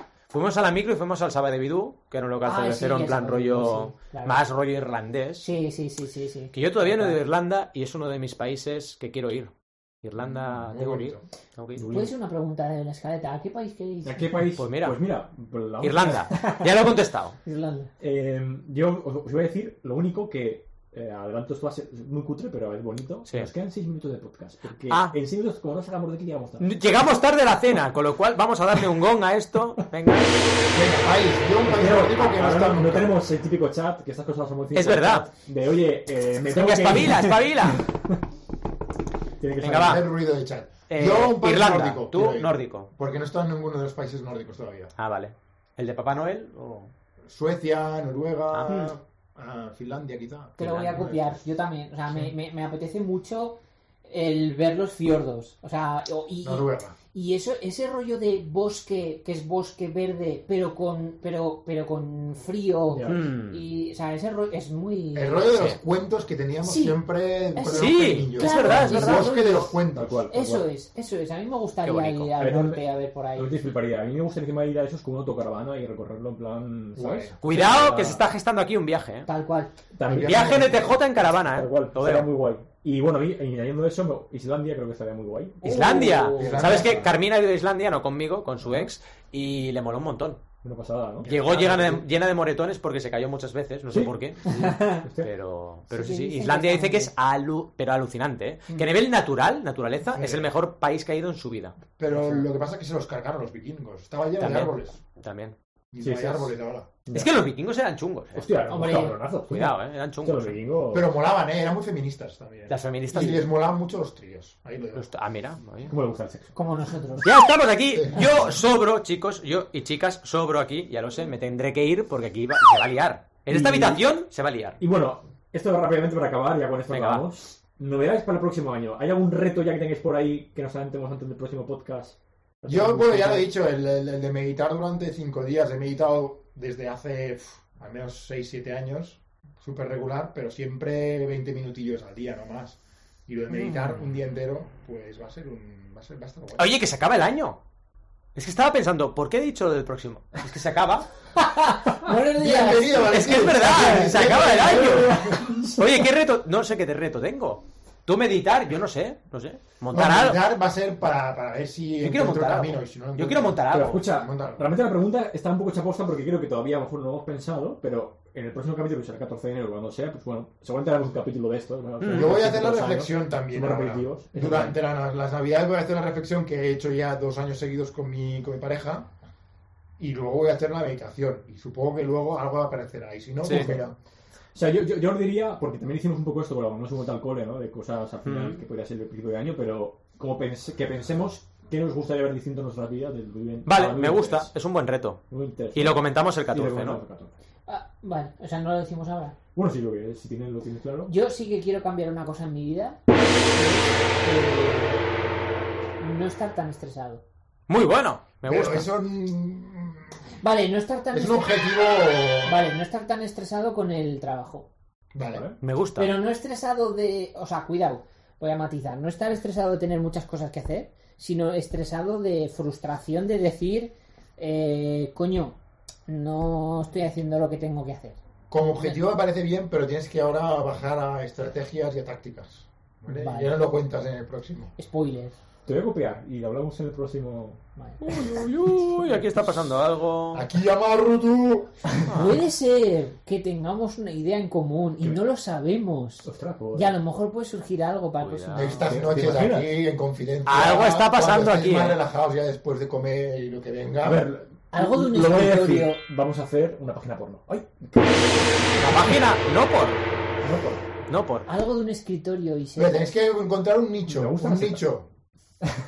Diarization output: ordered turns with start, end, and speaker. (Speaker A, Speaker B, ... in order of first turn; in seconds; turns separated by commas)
Speaker A: 0.3-5.5, Speaker B: 2.4-4.5, Speaker B: 5.4-7.2, Speaker A: 6.5-11.9, Speaker C: 10.3-11.2, Speaker D: 11.8-12.2, Speaker B: 11.8-14.5, Speaker D: 14.0-16.4, Speaker A: 14.6-15.0, Speaker A: 15.8-17.4, Speaker B: 16.3-16.7, Speaker B: 17.4-17.9, Speaker D: 18.0-26.8, Speaker A: 23.3-23.5, Speaker A: 24.9-25.2, Speaker A: 26.6-30.4, Speaker C: 30.7-33.2, Speaker D: 31.6-38.2, Speaker A: 34.7-35.3, Speaker A: 36.5-37.8, Speaker D: 39.4-40.1, Speaker A: 39.6-40.0, Speaker C: 39.8-44.9, Speaker A: 40.9-42.9, Speaker A: 45.0-46.9, Speaker C: 47.3-51.4, Speaker A: 48.5-48.9, Speaker B: 50.6-65.8, Speaker A: 50.6-51.0, Speaker C: 56.4-57.0, Speaker D: 62.9-63.3, Speaker A: 63.1-63.6, Speaker C: 65.2-70.2, Speaker B: 66.6-67.0, Speaker B: 67.5-73.5, Speaker A: 67.7-69.3, Speaker D: 69.9-70.7, Speaker A: 71.8-72.3, Speaker D: 72.4-78.3, Speaker C: 77.0-77.4, Speaker A: 77.4-79.3, Speaker B: 79.3-79.8, Speaker D: 79.9-87.1, Speaker C: 80.0-81.0, Speaker A: 80.2-82.3, Speaker B: 85.6-86.8, Speaker A: 85.6-90.4, Speaker C: 86.3-87.1, Speaker D: 88.6-88.9, Speaker D: 90.6-91.3, Speaker C: 91.2-92.0, Speaker A: 91.2-101.8, Speaker D: 93.9-95.3, Speaker B: 94.5-95.0, Speaker B: 95.9-97.1, Speaker C: 100.1-100.5, Speaker C: 102.0-105.0, Speaker D: 102.1-102.5, Speaker A: 104.4-105.6, Speaker C: 105.9-106.9, Speaker D: 106.0-106.5, Speaker D: 107.1-107.3, Speaker A: 107.1-108.7, Speaker D: 108.3-111.1, Speaker B: 108.7-109.2, Speaker A: 109.5-110.6, Speaker C: 110.9-115.1, Speaker A: 112.7-113.5, Speaker A: 114.9-115.9, Speaker D: 115.9-116.5, Speaker B: 116.5-117.3, Speaker A: 117.2-124.8, Speaker C: 118.0-118.5, Speaker D: 123.5-124.1, Speaker D: 124.8-133.5, Speaker A: 126.9-127.3, Speaker C: 132.7-146.7, Speaker A: 143.5-144.0, Speaker A: 146.6-147.6, Speaker A: 148.3-151.1, Speaker B: 151.4-154.3, Speaker C: 152.3-155.4, Speaker A: 153.1-160.4, Speaker D: 154.3-156.1, Speaker C: 159.9-164.7, Speaker A: 162.0-164.1, Speaker D: 163.7-174.8, Speaker A: 172.0-172.4, Speaker C: 172.1-179.2, Speaker C: 180.0-184.0, Speaker D: 183.4-183.8, Speaker A: 183.4-183.8, Speaker D: 184.5-194.5, Speaker A: 188.2-188.6, Speaker A: 193.7-195.2, Speaker D: 195.3-197.3, Speaker A: 195.7-197.0, Speaker B: 197.7-199.4, Speaker D: 199.6-201.1, Speaker B: 201.1-205.1, Speaker B: 206.0-207.2, Speaker A: 207.7-208.9, Speaker C: 208.4-210.1, Speaker B: 210.4-211.6, Speaker C: 211.1-212.6, Speaker B: 212.4-214.7, Speaker C: 215.1-215.5, Speaker A: 215.6-216.1, Speaker B: 216.0-228.2, Speaker C: 228.5-234.7, Speaker B: 233.1-233.6, Speaker B: 234.8-235.4, Speaker D: 235.7-239.6, Speaker A: 238.0-240.5, Speaker C: 240.3-241.8, Speaker A: 242.1-242.4, Speaker B: 242.1-248.8, Speaker D: 246.2-246.9, Speaker A: 248.2-248.9, Speaker C: 248.5-254.2, Speaker D: 248.8-249.7, Speaker A: 250.5-252.0, Speaker D: 254.0-259.2, Speaker B: 254.7-256.0, Speaker A: 258.8-260.0, Speaker D: 260.4-260.9, Speaker A: 261.1-261.5, Speaker B: 261.5-263.1, Speaker C: 262.8-265.1, Speaker D: 264.1-264.9